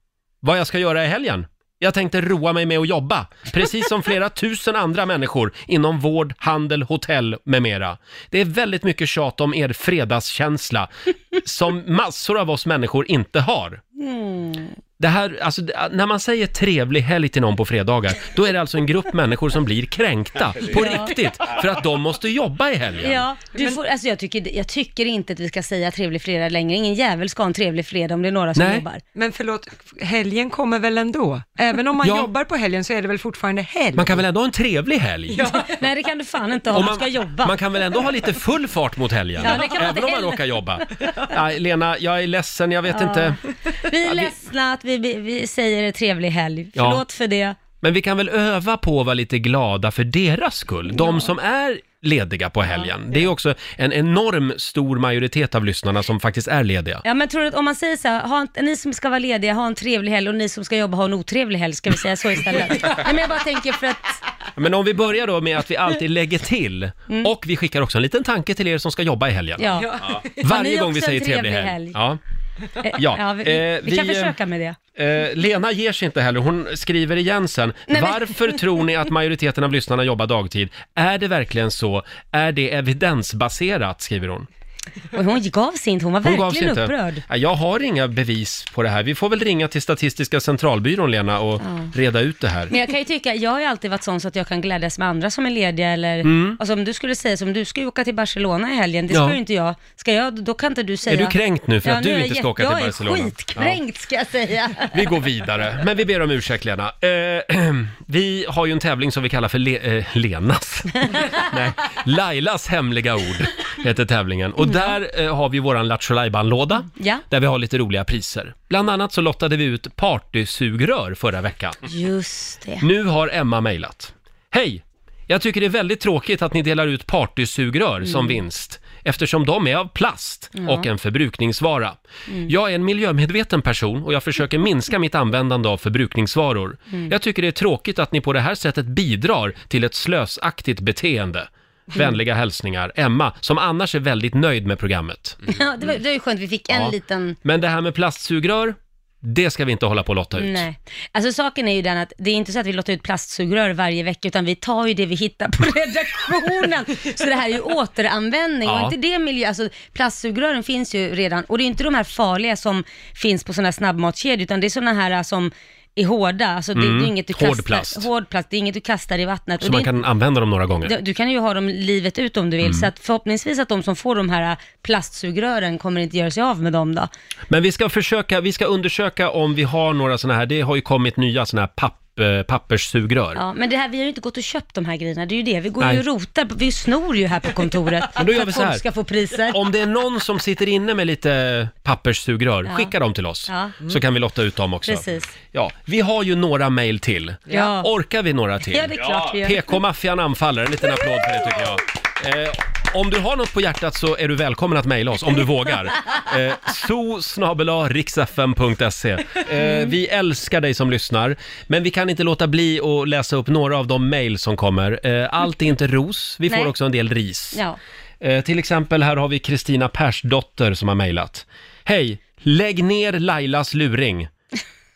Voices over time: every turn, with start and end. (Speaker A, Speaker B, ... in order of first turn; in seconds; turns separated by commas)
Speaker A: 0.4-13.8, Speaker B: 14.0-14.8, Speaker A: 15.0-23.2, Speaker B: 20.7-21.1, Speaker B: 23.0-29.0, Speaker A: 28.6-28.9, Speaker C: 29.1-34.2, Speaker A: 32.0-32.3, Speaker A: 34.0-35.5, Speaker C: 35.3-35.8, Speaker B: 35.6-37.6, Speaker A: 36.7-43.4, Speaker B: 39.4-40.8, Speaker B: 42.9-47.6, Speaker A: 44.0-44.3, Speaker A: 46.8-47.0, Speaker A: 47.8-57.0, Speaker B: 50.9-51.3, Speaker B: 57.0-64.2, Speaker A: 64.6-69.8, Speaker B: 69.6-72.0, Speaker C: 69.8-70.1, Speaker A: 70.4-72.2, Speaker B: 72.8-74.8, Speaker A: 72.9-74.3, Speaker A: 75.0-84.5, Speaker B: 77.9-78.6, Speaker B: 85.1-87.2, Speaker A: 86.2-92.7, Speaker B: 91.6-91.9, Speaker B: 92.7-105.1, Speaker A: 96.2-96.6, Speaker A: 99.1-99.4, Speaker A: 101.1-103.8, Speaker A: 104.9-121.8, Speaker B: 114.6-114.9, Speaker B: 117.0-117.2, Speaker B: 121.9-122.8, Speaker A: 122.8-145.4, Speaker B: 130.6-130.9, Speaker B: 145.5-147.4, Speaker A: 146.7-150.7, Speaker B: 150.4-169.9, Speaker A: 158.6-158.9, Speaker A: 166.8-168.1, Speaker A: 169.6-170.9, Speaker B: 170.8-177.1, Speaker A: 172.6-172.9, Speaker A: 177.5-183.4, Speaker B: 183.4-189.6, Speaker A: 188.2-188.8, Speaker A: 189.5-217.6, Speaker B: 192.7-192.9, Speaker B: 193.5-193.8, Speaker B: 194.9-195.3, Speaker C: 197.5-197.7, Speaker B: 197.5-197.9, Speaker B: 198.7-199.8, Speaker B: 209.6-209.9, Speaker A: 218.2-224.3